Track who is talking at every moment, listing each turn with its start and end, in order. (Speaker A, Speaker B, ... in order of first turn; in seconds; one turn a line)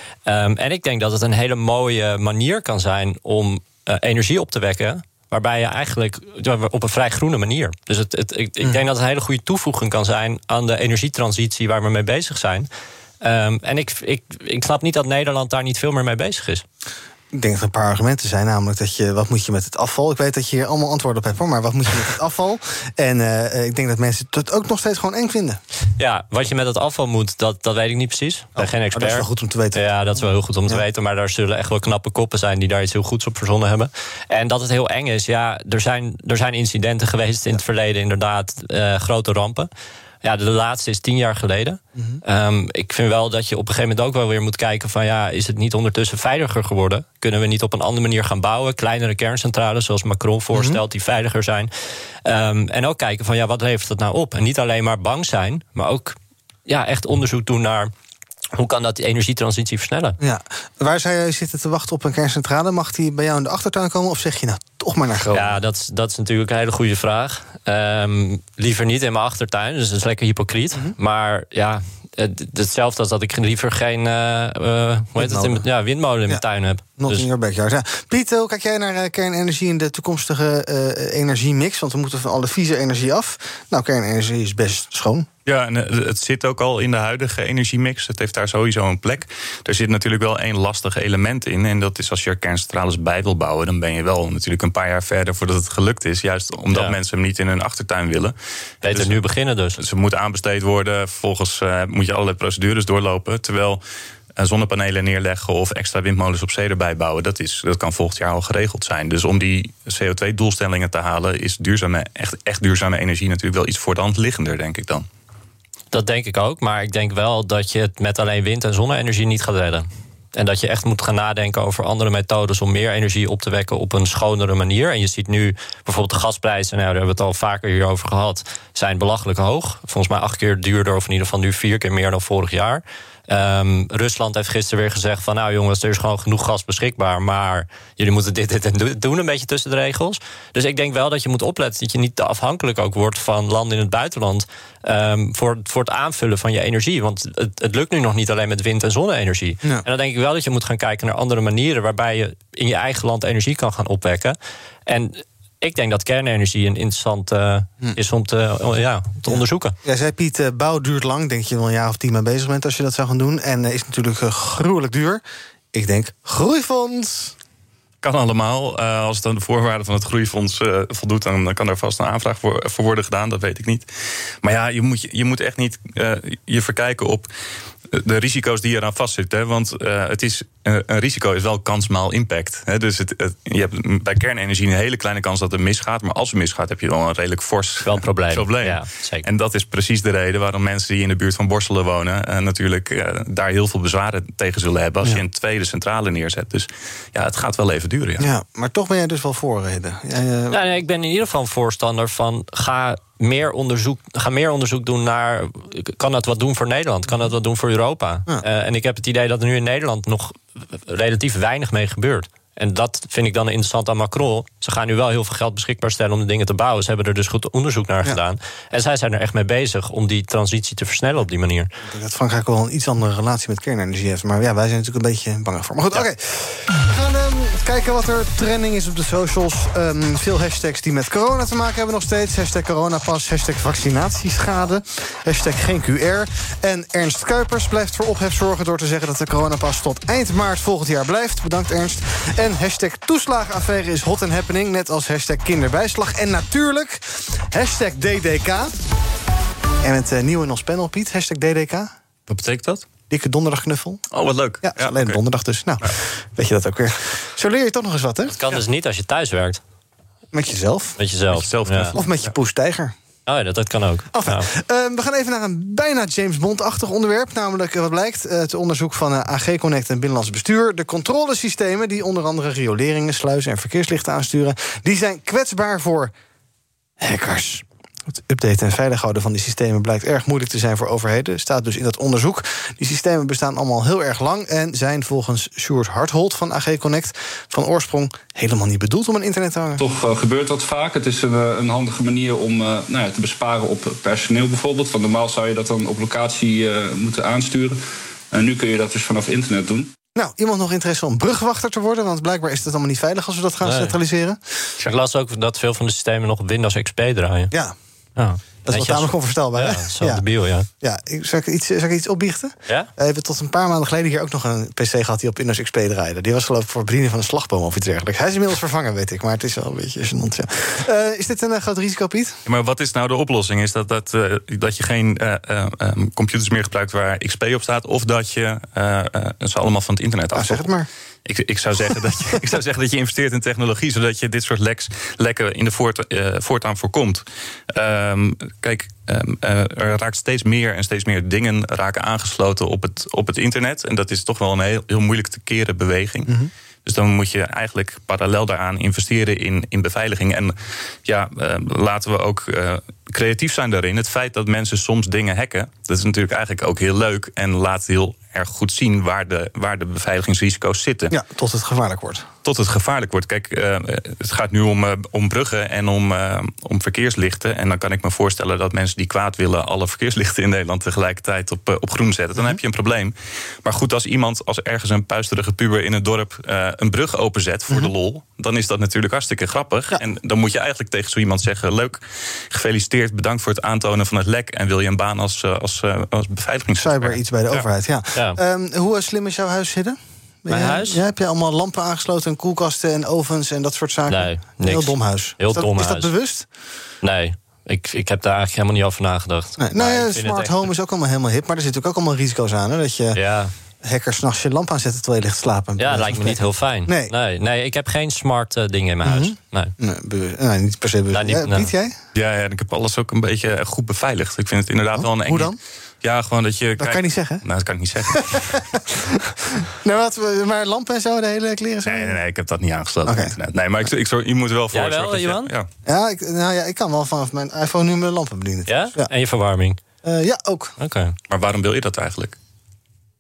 Speaker A: 0.3-12.7
Speaker A: 13.2-16.6
Speaker B: 17.3-25.6
Speaker A: 26.0-39.7
Speaker B: 28.6-29.9
Speaker A: 40.2-51.7
Speaker B: 42.0-42.2
Speaker B: 50.5-50.8
Speaker A: 52.2-56.2
Speaker A: 56.7-57.9
Speaker A: 58.5-60.2
Speaker B: 60.2-65.6
Speaker A: 65.3-77.3
Speaker B: 75.2-75.6
Speaker B: 77.0-85.3
Speaker C: 85.5-99.2
Speaker A: 98.8-99.8
Speaker C: 99.8-103.8
Speaker C: 104.4-115.1
Speaker A: 115.9-154.4
Speaker A: 154.9-159.8
Speaker B: 159.3-165.2
Speaker B: 165.7-167.3
Speaker C: 168.0-173.9
Speaker C: 174.4-177.3
Speaker C: 177.9-198.3
Speaker A: 187.8-189.2
Speaker B: 198.2-200.6
Speaker A: 200.5-221.7
Speaker B: 221.8-248.7
Speaker B: 249.8-251.9
Speaker C: 252.3-252.8
Speaker B: 253.1-254.0
Speaker C: 254.1-255.2
Speaker B: 254.6-258.4
Speaker A: 258.3-259.6
Speaker B: 260.3-261.0
Speaker A: 261.0-261.9
Speaker C: 261.3-262.3
Speaker B: 261.9-262.9
Speaker A: 263.3-264.5
Speaker B: 264.1-276.1
Speaker B: 277.0-289.8
Speaker D: 289.8-297.8
Speaker D: 298.3-299.9
Speaker B: 300.2-304.4
Speaker A: 303.6-303.9
Speaker A: 304.8-307.5
Speaker A: 308.2-310.7
Speaker B: 308.6-310.2
Speaker B: 310.8-322.4
Speaker C: 322.5-330.7
Speaker B: 330.3-330.9
Speaker C: 331.3-346.3
Speaker C: 346.9-361.1
Speaker B: 361.1-362.3
Speaker C: 362.4-382.0
Speaker C: 382.5-387.7
Speaker B: 386.8-396.5
Speaker A: 390.5-391.0
Speaker A: 394.1-396.1
Speaker A: 397.0-400.7
Speaker B: 399.6-403.2
Speaker A: 403.1-403.5
Speaker B: 403.8-407.1
Speaker A: 405.8-409.7
Speaker B: 409.0-412.0
Speaker A: 411.1-411.7
Speaker C: 412.1-418.6
Speaker B: 415.0-415.6
Speaker B: 416.8-417.4
Speaker B: 418.1-422.2
Speaker C: 421.9-425.7
Speaker B: 423.1-423.3
Speaker A: 424.7-425.5
Speaker B: 425.9-429.1
Speaker A: 428.7-429.8
Speaker B: 430.0-430.7
Speaker A: 430.8-431.1
Speaker C: 431.3-432.4